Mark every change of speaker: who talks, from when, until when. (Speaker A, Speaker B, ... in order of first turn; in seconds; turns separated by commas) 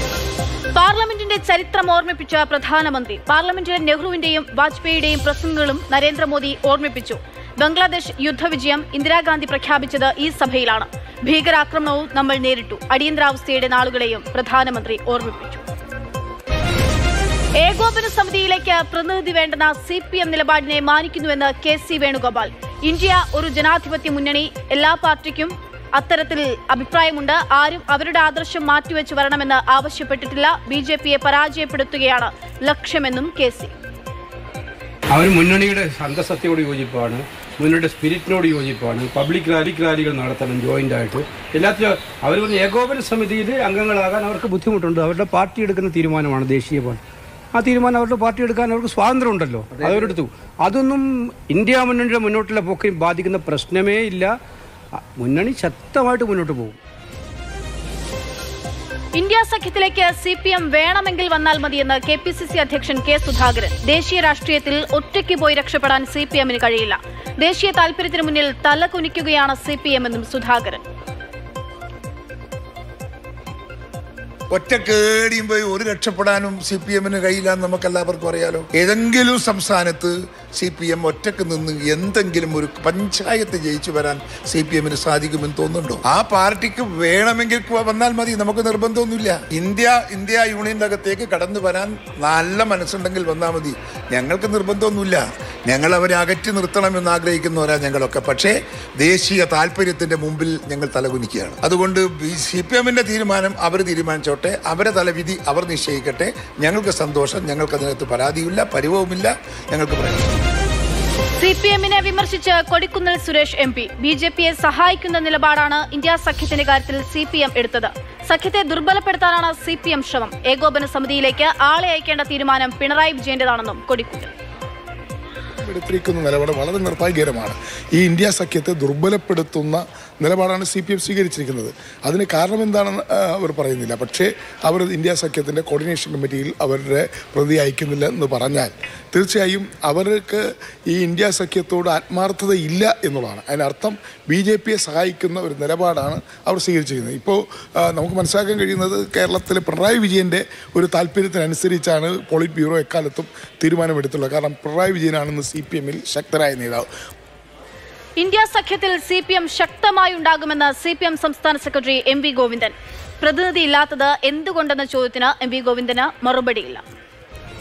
Speaker A: 0.7-15.6, Speaker A: 17.6-33.7, Speaker B: 35.1-47.0, Speaker B: 47.5-54.3, Speaker B: 55.2-56.8, Speaker A: 59.1-70.8, Speaker C: 74.5-110.5, Speaker A: 111.4-124.3, Speaker D: 125.6-156.9, Speaker A: 158.2-166.8